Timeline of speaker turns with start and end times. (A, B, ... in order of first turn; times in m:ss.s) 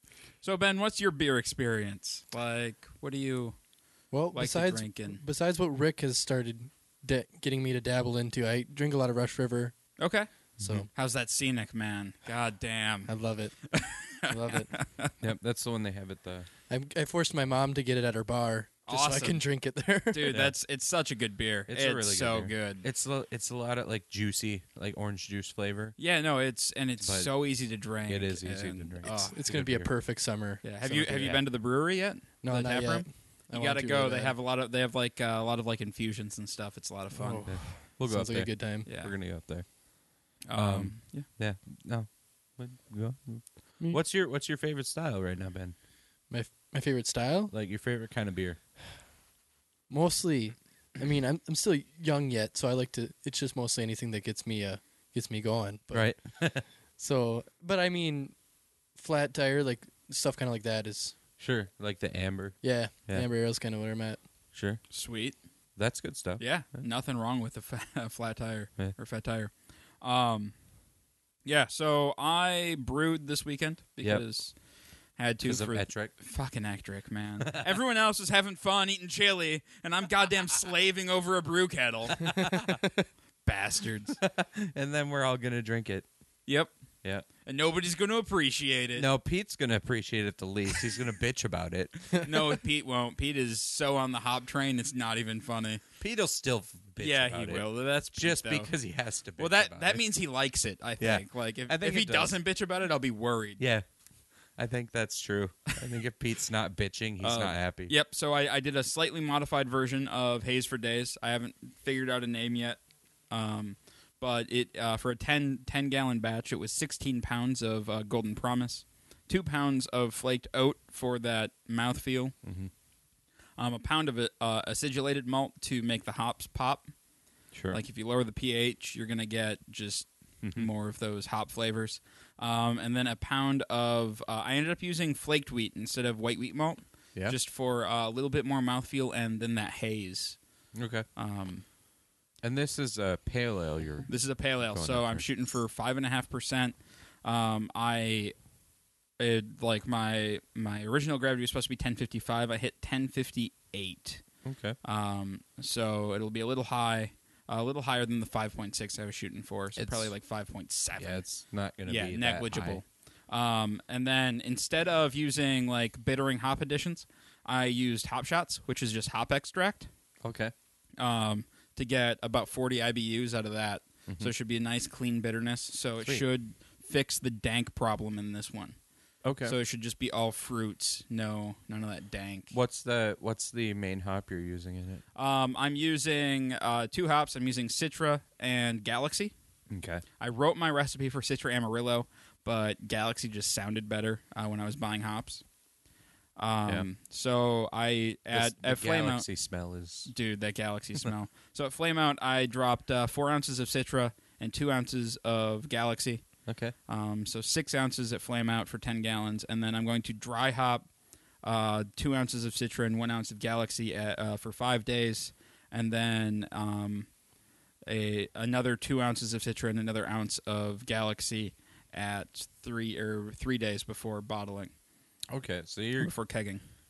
0:00.4-0:03.6 A
0:04.1-0:09.7 B
0:04.3-0:05.2 A
0:10.0-0:10.3 A
0:10.6-0:10.8 C
0:10.6-0:10.9 B
0:10.9-0:13.1 A
0:13.0-0:14.7 B
0:13.7-0:15.1 A
0:15.2-0:16.5 C
0:16.7-0:20.3 B
0:18.9-0:19.4 A
0:20.1-0:22.8 A
0:20.3-0:20.5 C
0:21.7-0:26.0 C
0:26.0-0:29.4 A
0:27.0-0:29.9 C
0:29.0-0:30.6 B
0:30.6-0:37.5 A
0:30.8-0:31.4 C
0:32.4-0:34.4 B
0:37.1-0:38.9 B
0:37.4-0:39.7 C
0:38.8-0:39.1 A
0:40.4-0:41.3 A
0:40.5-0:45.7 C
0:46.3-0:47.5 B
0:47.5-0:48.6 C
0:49.9-0:56.2 B
0:55.9-0:56.6 C
0:57.0-0:58.3 B
0:58.9-1:01.1 B
1:01.4-1:03.3 C
1:02.6-1:04.2 B
1:04.5-1:04.8 C
1:04.9-1:05.4 A
1:05.8-1:06.5 C
1:06.4-1:10.5 A
1:11.4-1:14.5 A
1:15.2-1:22.5 A
1:15.4-1:16.1 C
1:22.2-1:22.8 C
1:23.4-1:24.2 A
1:24.2-1:26.0 C
1:26.5-1:26.7 A
1:27.4-1:29.0 A
1:29.0-1:32.5 C
1:32.1-1:35.8 A
1:36.0-1:40.0 C
1:37.0-1:38.7 A
1:39.4-1:43.6 A
1:41.0-1:42.4 C
1:43.6-1:43.8 C
1:44.6-1:47.9 C
1:47.2-2:02.3 A
2:02.4-2:02.7 C
2:03.6-2:06.9 A
2:07.5-2:07.8 C
2:07.7-2:20.4 A
2:10.4-2:10.7 C
2:20.7-2:21.0 C
2:21.2-2:21.6 A
2:22.4-2:25.2 C
2:24.1-2:28.3 A
2:29.2-2:34.2 A
2:34.4-2:34.8 C
2:34.8-2:41.2 A
2:39.8-2:40.1 C
2:41.0-2:42.8 C
2:41.9-2:49.9 A
2:50.2-2:50.5 C
2:51.0-2:58.8 A
2:54.1-2:54.3 C
2:59.2-2:59.6 C
2:59.4-3:02.5 A
3:02.5-3:05.0 C
3:05.1-3:09.3 A
3:09.7-3:10.0 C
3:10.2-3:15.4 A
3:16.4-3:19.2 A
3:18.3-3:20.1 C
3:20.1-3:26.2 A
3:26.5-3:26.7 C
3:26.9-3:30.9 A
3:31.4-3:37.1 A
3:37.9-3:44.7 A
3:45.3-3:46.1 C
3:46.0-3:46.6 A